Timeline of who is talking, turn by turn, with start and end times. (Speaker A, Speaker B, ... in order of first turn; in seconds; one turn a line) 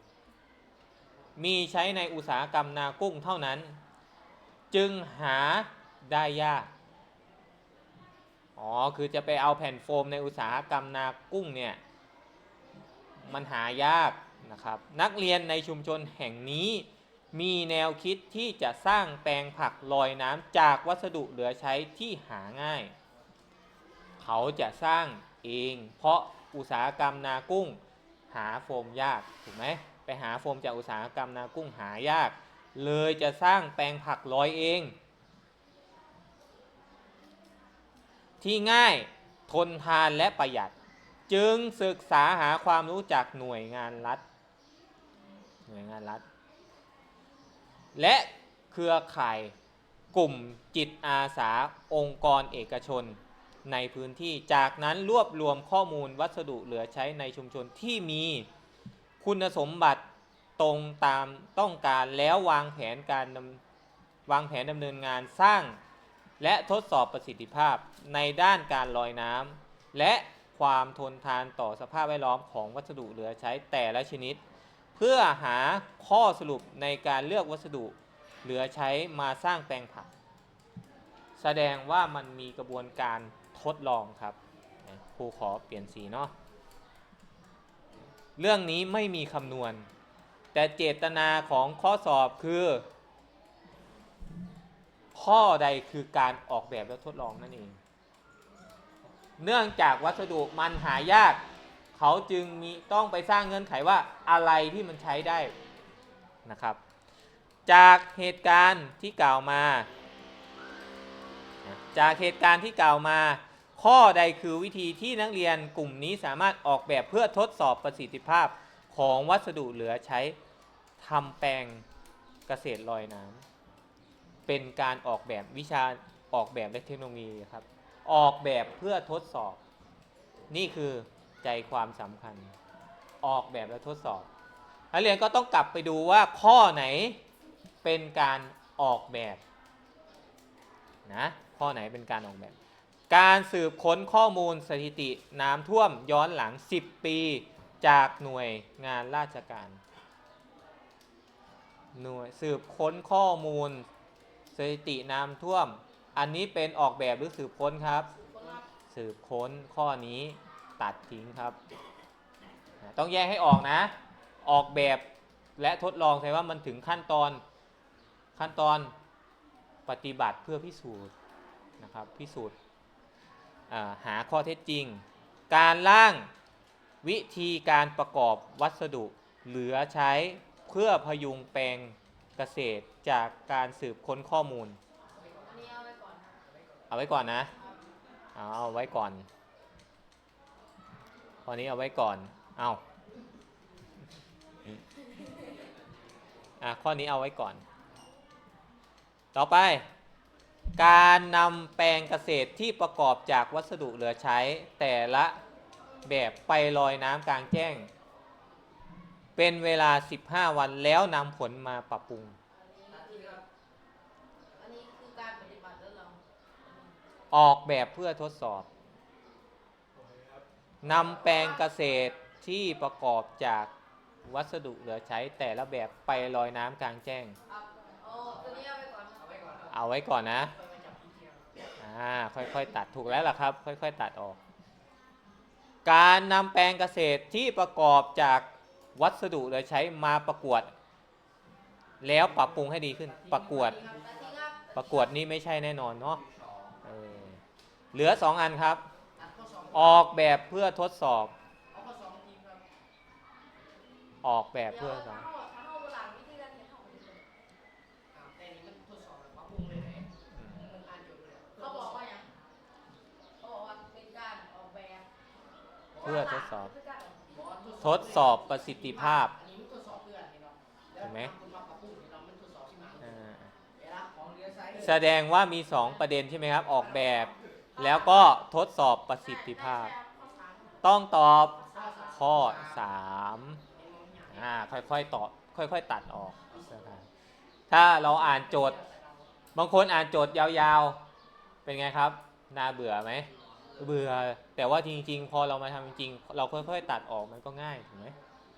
Speaker A: 1.4-3.8
Speaker A: 4.7-6.7
Speaker A: 8.6-11.8
Speaker A: 13.2-22.9
Speaker A: 24.2-27.8
Speaker A: 28.3-35.0
Speaker A: 38.4-40.7
Speaker A: 41.3-44.2
Speaker A: 45.7-46.2
Speaker A: 47.9-49.5
Speaker A: 50.1-58.5
Speaker A: 59.2-60.0
Speaker A: 60.6-63.6
Speaker A: 64.3-65.8
Speaker A: 66.4-74.4
Speaker A: 74.9-80.1
Speaker A: 81.4-86.3
Speaker A: 88.4-89.9
Speaker A: 90.5-92.8
Speaker A: 95.1-97.8
Speaker A: 99.4-101.4
Speaker A: 101.9-105.5
Speaker A: 106.4-106.8
Speaker A: 107.7-109.9
Speaker A: 111.6-120.3
Speaker A: 121.0-121.8
Speaker A: 122.5-123.4
Speaker A: 124.5-129.6
Speaker A: 130.5-132.5
Speaker A: 133.2-134.3
Speaker A: 134.9-137.2
Speaker A: 137.8-139.4
Speaker A: 141.1-142.5
Speaker A: 143.1-149.8
Speaker A: 151.9-153.9
Speaker A: 154.5-158.1
Speaker B: 158.1-158.6
Speaker A: 158.9-161.6
Speaker A: 162.8-165.1
Speaker A: 165.6-167.4
Speaker A: 168.3-168.9
Speaker A: 169.9-171.1
Speaker A: 171.8-172.5
Speaker A: 173.7-176.3
Speaker A: 177.0-184.8
Speaker B: 185.4-186.3
Speaker A: 186.9-187.5
Speaker A: 188.3-189.2
Speaker A: 191.4-192.8
Speaker A: 196.6-197.6
Speaker A: 199.3-199.9
Speaker A: 200.8-205.4
Speaker A: 206.0-207.9
Speaker A: 209.3-212.3
Speaker B: 212.5-213.4
Speaker C: 213.1-213.3
Speaker B: 214.6-216.2
Speaker A: 217.3-218.7
Speaker A: 220.8-223.7
Speaker A: 224.2-227.3
Speaker B: 227.5-229.4
Speaker C: 229.2-229.7
Speaker A: 229.7-230.5
Speaker C: 230.5-231.4
Speaker A: 231.8-234.4
Speaker A: 235.8-240.7
Speaker A: 242.0-243.8
Speaker C: 243.2-244.1
Speaker B: 243.9-245.1
Speaker A: 244.7-246.2
Speaker A: 246.8-247.4
Speaker A: 247.9-248.8
Speaker C: 249.2-250.0
Speaker A: 249.7-251.3
Speaker C: 251.7-252.6
Speaker A: 254.2-255.3
Speaker B: 254.7-257.2
Speaker C: 258.1-262.0
Speaker A: 260.3-260.7
Speaker B: 261.6-262.3
Speaker B: 263.4-265.1
Speaker B: 266.0-267.9
Speaker A: 266.0-266.7
Speaker C: 267.3-273.1
Speaker A: 267.8-269.3
Speaker A: 271.0-271.3
Speaker A: 273.0-273.5
Speaker C: 273.8-274.9
Speaker A: 274.7-279.9
Speaker B: 277.8-278.3
Speaker B: 279.2-280.8
Speaker A: 280.8-283.6
Speaker B: 281.6-282.0
Speaker C: 281.7-282.8
Speaker C: 283.8-284.4
Speaker A: 284.3-287.0
Speaker A: 287.7-288.8
Speaker C: 287.9-289.2
Speaker A: 289.5-291.0
Speaker A: 291.6-298.1